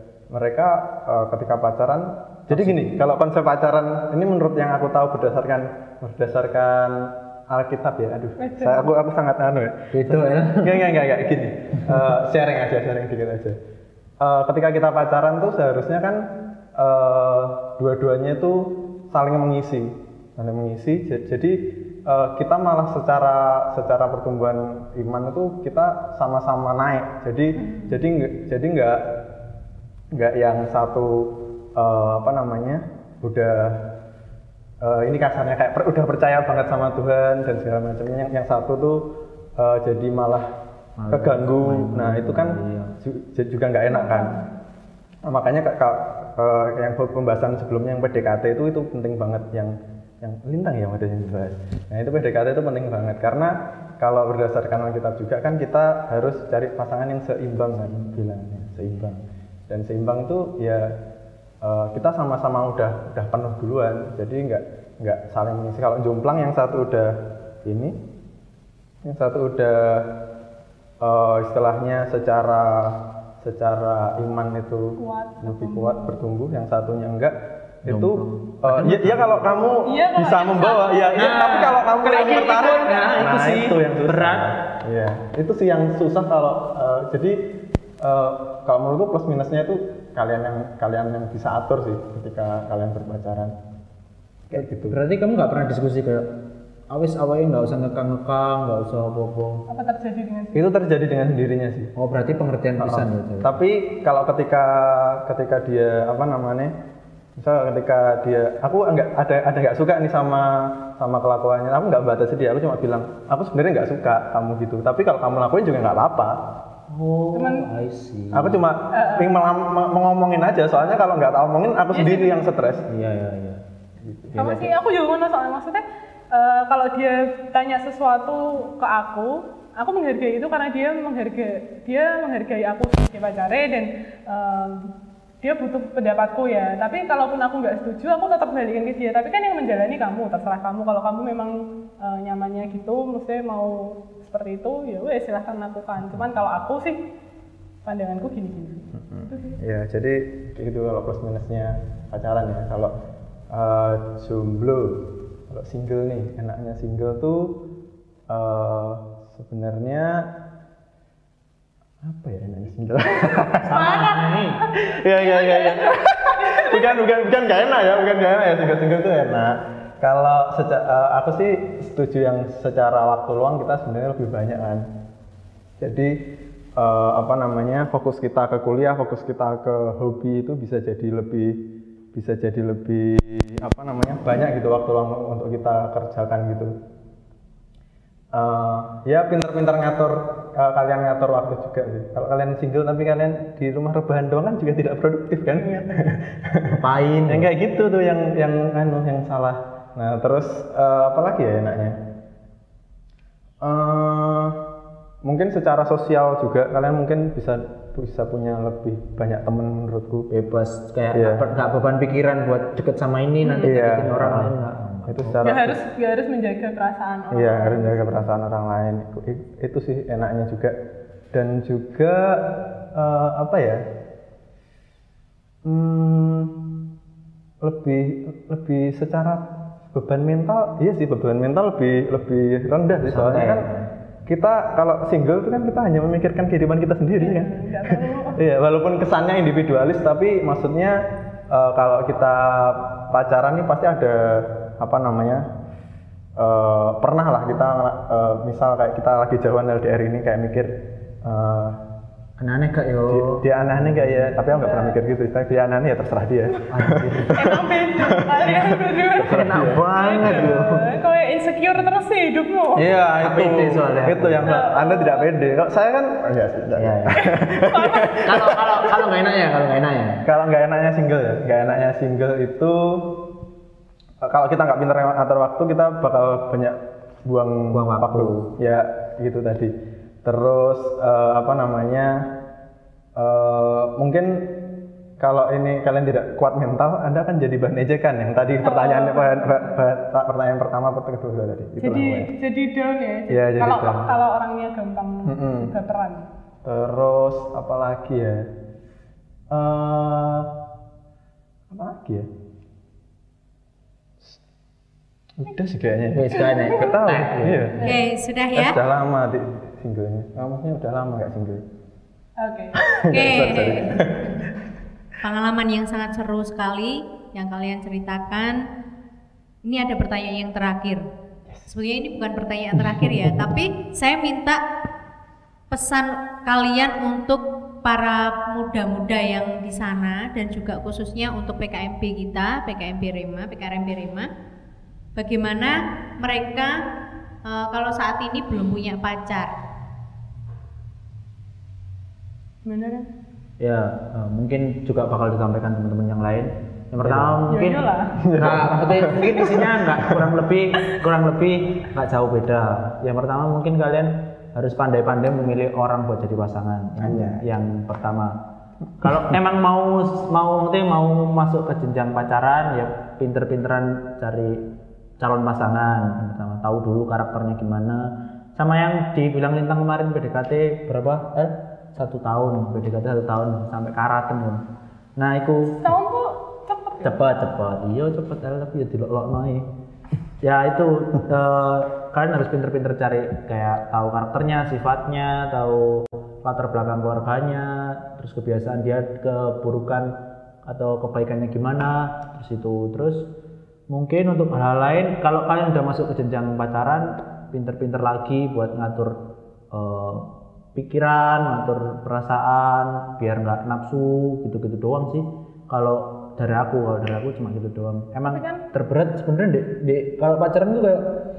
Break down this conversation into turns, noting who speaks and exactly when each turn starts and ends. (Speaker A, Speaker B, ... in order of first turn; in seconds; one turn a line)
Speaker A: 0.3-13.6
Speaker B: 2.5-2.9
Speaker C: 8.4-8.9
Speaker B: 9.9-10.8
Speaker A: 14.2-16.2
Speaker A: 16.8-29.1
Speaker C: 27.6-28.0
Speaker A: 30.1-33.8
Speaker A: 34.8-39.0
Speaker A: 39.6-40.5
Speaker B: 41.0-42.9
Speaker A: 41.1-44.3
Speaker C: 43.9-44.5
Speaker A: 45.2-60.9
Speaker A: 61.6-67.9
Speaker A: 69.0-70.0
Speaker A: 71.0-87.3
Speaker C: 75.0-76.1
Speaker B: 77.9-79.5
Speaker C: 79.8-83.2
Speaker B: 81.2-84.5
Speaker A: 88.0-93.5
Speaker A: 94.5-95.0
Speaker B: 94.5-96.3
Speaker B: 96.9-99.6
Speaker C: 99.7-100.6
Speaker A: 100.5-101.9
Speaker B: 102.0-103.6
Speaker A: 102.8-106.7
Speaker A: 107.4-116.3
Speaker B: 116.9-118.6
Speaker C: 117.3-117.7
Speaker A: 118.3-122.9
Speaker C: 118.9-119.3
Speaker C: 121.9-122.4
Speaker B: 122.9-123.6
Speaker A: 124.0-124.7
Speaker C: 124.3-134.9
Speaker C: 135.4-147.0
Speaker C: 147.8-149.6
Speaker A: 148.9-152.9
Speaker A: 153.5-157.5
Speaker A: 158.3-160.2
Speaker A: 162.0-163.9
Speaker C: 163.2-167.3
Speaker B: 163.6-164.6
Speaker A: 164.8-174.8
Speaker A: 175.8-176.1
Speaker A: 176.8-181.6
Speaker A: 182.1-186.7
Speaker A: 188.3-201.9
Speaker C: 195.5-196.1
Speaker B: 196.8-197.5
Speaker A: 203.6-204.6
Speaker A: 205.2-210.3
Speaker B: 210.3-215.4
Speaker A: 211.1-211.4
Speaker C: 213.4-213.7
Speaker A: 213.6-214.5
Speaker A: 215.1-215.8
Speaker C: 215.4-218.2
Speaker A: 217.3-220.8
Speaker A: 221.3-223.8
Speaker A: 225.6-226.6
Speaker A: 227.6-233.7
Speaker B: 233.1-233.9
Speaker A: 234.2-241.0
Speaker C: 237.2-238.4
Speaker A: 241.5-245.4
Speaker A: 246.4-251.8
Speaker B: 252.4-254.3
Speaker A: 253.1-260.6
Speaker C: 254.5-254.9
Speaker B: 256.7-257.4
Speaker C: 257.3-262.9
Speaker B: 259.2-260.9
Speaker A: 262.7-269.1
Speaker B: 263.2-264.5
Speaker C: 264.4-265.3
Speaker B: 266.8-267.3
Speaker C: 267.1-268.2
Speaker B: 268.1-270.2
Speaker A: 270.2-273.1
Speaker A: 274.2-279.7
Speaker B: 277.7-278.5
Speaker A: 280.2-282.2
Speaker A: 283.1-284.5
Speaker A: 285.2-292.3
Speaker C: 288.6-289.6
Speaker C: 291.8-296.3
Speaker A: 293.3-294.1
Speaker A: 295.2-295.7
Speaker A: 296.6-298.5
Speaker A: 299.5-300.5
Speaker A: 301.7-302.3
Speaker A: 305.4-307.9
Speaker B: 306.1-307.7
Speaker C: 306.3-306.9
Speaker D: 307.8-308.8
Speaker A: 308.5-311.6
Speaker C: 312.4-313.2
Speaker A: 312.9-314.5
Speaker D: 313.1-314.0
Speaker D: 315.2-318.6
Speaker D: 319.6-321.0
Speaker D: 321.7-324.6
Speaker D: 325.7-334.3
Speaker D: 335.1-336.8
Speaker D: 337.4-339.5
Speaker C: 342.6-343.1
Speaker B: 343.6-358.4
Speaker A: 347.0-347.4
Speaker C: 347.5-348.2
Speaker A: 348.2-350.2
Speaker A: 357.0-357.4
Speaker B: 359.0-364.6
Speaker B: 365.2-374.6
Speaker B: 375.2-375.8
Speaker C: 375.7-377.2
Speaker B: 377.0-379.7
Speaker B: 380.4-393.3
Speaker B: 393.9-399.2
Speaker B: 399.7-411.2
Speaker C: 408.3-408.6